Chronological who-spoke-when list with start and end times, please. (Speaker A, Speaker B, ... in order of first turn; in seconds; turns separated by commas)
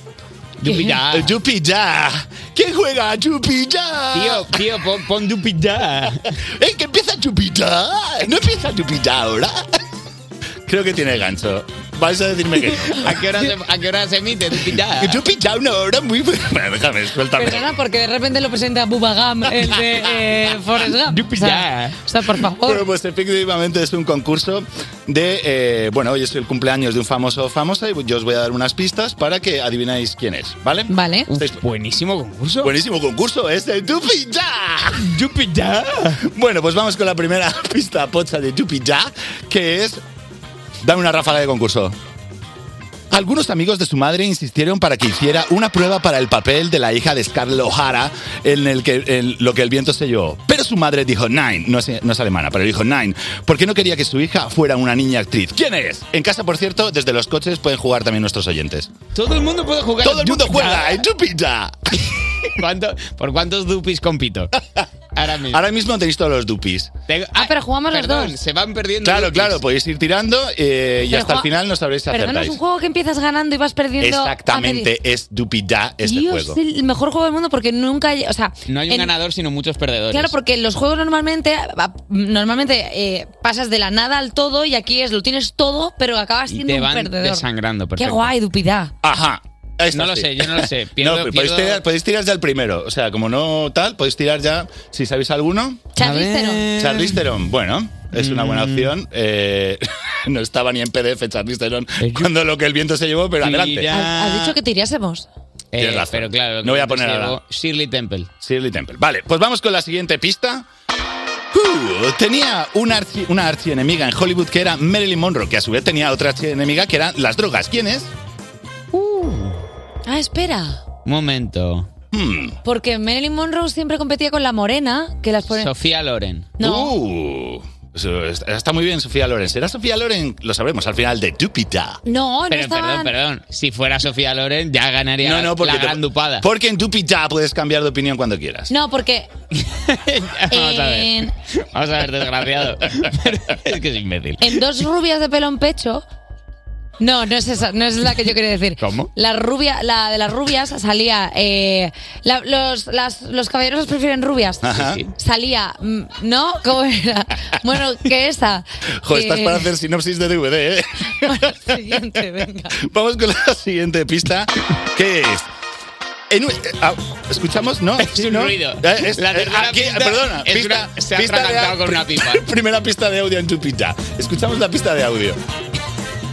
Speaker A: 0.6-1.4, Speaker B: 0.7-4.6, Speaker A: 4.1-6.3, Speaker B: 6.6-9.7, Speaker B: 10.7-13.1, Speaker A: 12.9-15.2, Speaker B: 14.8-17.6, Speaker C: 17.4-22.8, Speaker A: 21.3-22.0, Speaker B: 22.6-31.6, Speaker C: 30.9-31.3, Speaker A: 31.3-32.8, Speaker B: 32.6-35.2, Speaker A: 35.0-35.8, Speaker B: 36.1-40.0, Speaker B: 40.8-42.0, Speaker B: 43.1-58.9, Speaker A: 59.1-61.0, Speaker B: 60.0-62.0, Speaker A: 62.4-64.5, Speaker A: 65.2-65.6, Speaker B: 65.5-66.9, Speaker A: 67.1-69.6, Speaker C: 67.3-68.4, Speaker B: 69.0-72.6, Speaker C: 71.1-71.5, Speaker C: 72.1-74.9, Speaker B: 74.0-76.6, Speaker C: 76.0-79.1, Speaker A: 78.7-80.3, Speaker C: 80.1-87.5, Speaker A: 86.5-88.3, Speaker C: 88.0-88.9, Speaker B: 89.0-95.9, Speaker A: 89.9-91.8, Speaker C: 96.0-96.7, Speaker A: 96.0-97.2, Speaker B: 96.8-103.9, Speaker A: 98.1-98.9, Speaker A: 102.0-102.3, Speaker A: 103.4-104.5, Speaker C: 103.9-105.3, Speaker A: 105.7-108.3, Speaker B: 105.8-107.4, Speaker B: 108.4-110.7, Speaker B: 111.5-118.1, Speaker C: 118.9-119.4, Speaker C: 120.1-120.8, Speaker A: 121.0-121.9, Speaker B: 122.1-122.6, Speaker C: 122.6-125.7, Speaker A: 125.5-126.5, Speaker C: 126.6-127.0, Speaker B: 126.6-132.0, Speaker C: 132.1-133.1, Speaker A: 132.5-136.5, Speaker B: 135.2-138.7, Speaker C: 138.7-139.3, Speaker A: 139.5-144.7, Speaker C: 140.5-141.3, Speaker C: 144.4-146.0, Speaker C: 147.0-159.7, Speaker A: 148.8-149.1, Speaker B: 154.6-155.0, Speaker A: 154.8-155.1, Speaker B: 159.0-161.8, Speaker C: 161.2-162.8, Speaker B: 162.8-165.5, Speaker B: 166.3-175.4, Speaker A: 168.0-172.5